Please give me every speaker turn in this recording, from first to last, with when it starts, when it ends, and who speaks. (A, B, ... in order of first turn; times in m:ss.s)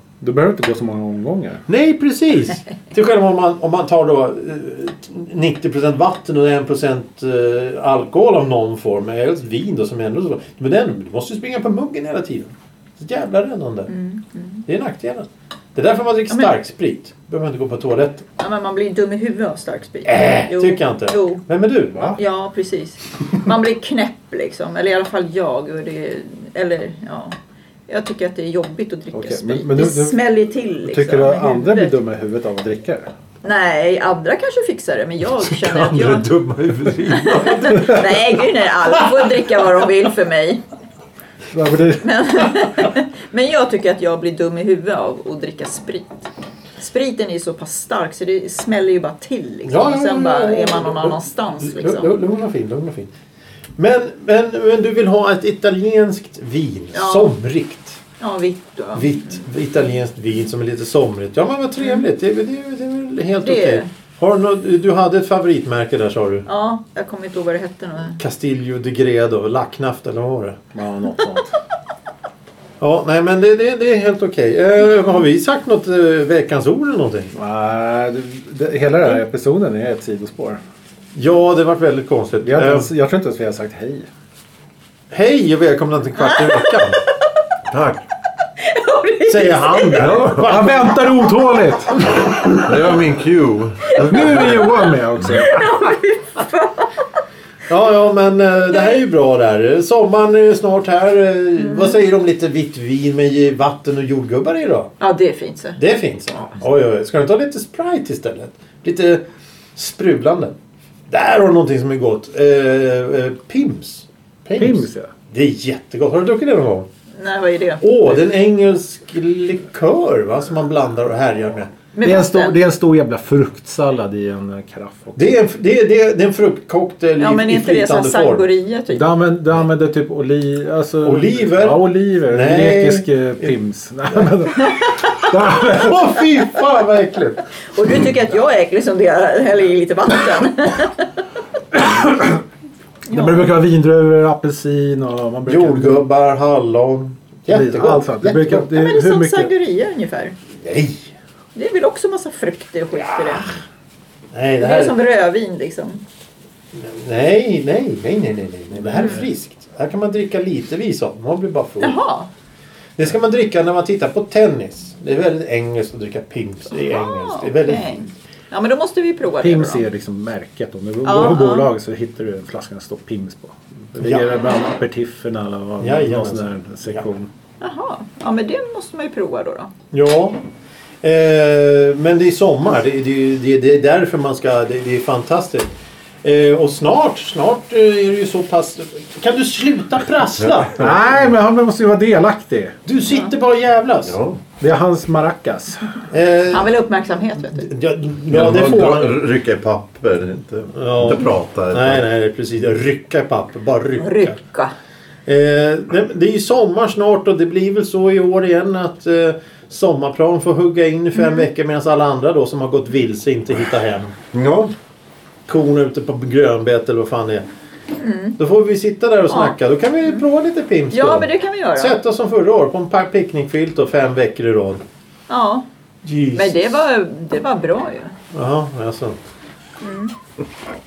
0:00.2-0:01.6 A
0:01.7-0:13.9 B
0:13.9-0:14.6 C
0:14.7-0:18.2 B
0:18.4-0:21.4 C
0:20.0-0:22.2 B
0:22.0-0:27.4 C
0:27.9-0:32.0 C
0:29.1-0:30.2 A
0:30.8-0:33.0 A
0:33.4-0:36.3 C
0:35.4-0:38.3 B
0:37.2-0:40.6 C
0:41.5-0:42.1 A
0:42.0-0:52.1 C
0:49.6-0:53.1 B
0:53.8-0:58.0 B
0:56.9-0:57.3 C
0:58.2-0:59.4 C
0:58.9-1:06.4 B
1:01.8-1:02.1 C
1:03.4-1:03.9 C
1:06.4-1:08.2 C
1:08.2-1:10.6 B
1:10.7-1:11.5 A
1:12.8-1:17.3 B
1:17.3-1:20.6 A
1:21.1-1:22.9 B
1:22.4-1:24.1 A
1:25.1-1:27.0 B
1:26.2-1:26.8 C
1:27.7-1:28.0 D
1:28.6-1:30.1 C
1:29.3-1:30.8 B
1:30.0-1:30.6 D
1:30.2-1:32.0 A
1:31.2-1:32.2 C
1:32.6-1:34.5 D
1:33.8-1:37.2 C
1:34.0-1:35.6 A
1:34.2-1:34.4 B
1:37.7-1:44.9 B
1:38.7-1:39.0 C
1:41.6-1:42.0 C
1:45.0-1:45.8 C
1:45.8-1:49.2 B
1:49.8-1:50.5 B
1:51.1-1:56.9 B
1:54.6-1:55.1 A
1:57.2-1:57.8 C
1:57.8-2:01.7 B
2:01.9-2:02.6 C
2:02.0-2:05.3 A
2:05.2-2:08.5 B
2:07.2-2:09.0 C
2:08.9-2:16.2 A
2:11.0-2:13.5 B
2:15.6-2:17.4 B
2:17.7-2:21.2 C
2:21.7-2:22.4 A
2:23.1-2:23.5 C
2:23.1-2:26.0 A
2:25.5-2:28.6 B
2:27.5-2:29.5 A
2:28.5-2:30.3 C
2:30.6-2:31.1 B
2:31.5-2:33.5 C
2:34.3-2:35.0 B
2:34.6-2:36.0 C
2:36.7-2:42.0 B
2:39.0-2:39.3 C
2:41.8-2:42.3 C
2:43.0-2:48.0 B
2:46.8-2:49.8 C
2:49.4-2:57.3 A
2:51.0-2:51.7 C
2:54.0-2:54.4 B
2:55.8-2:57.1 B
2:57.6-2:59.7 C
2:59.9-3:00.4 B
3:01.0-3:05.7 B
3:06.2-3:11.0 B
3:10.4-3:11.3 D
3:10.8-3:12.8 A
3:12.8-3:14.2 B
3:13.0-3:13.3 C
3:14.0-3:14.4 D
3:14.6-3:15.9 A
3:16.1-3:16.7 B
3:16.5-3:17.7 C
3:17.5-3:19.2 B
3:18.3-3:22.1 D
3:20.7-3:24.4 B
3:24.0-3:24.7 C
3:25.2-3:34.1 B
3:31.1-3:31.5 C
3:34.3-3:34.7 D
3:35.5-3:37.4 B
3:37.9-3:38.4 C
3:38.4-3:44.8 B
3:39.3-3:40.2 C
3:40.9-3:42.0 C
3:45.3-3:45.6 C
3:46.0-3:46.8 B
3:46.3-3:48.2 C
3:48.3-3:49.2 B
3:49.8-3:50.1 C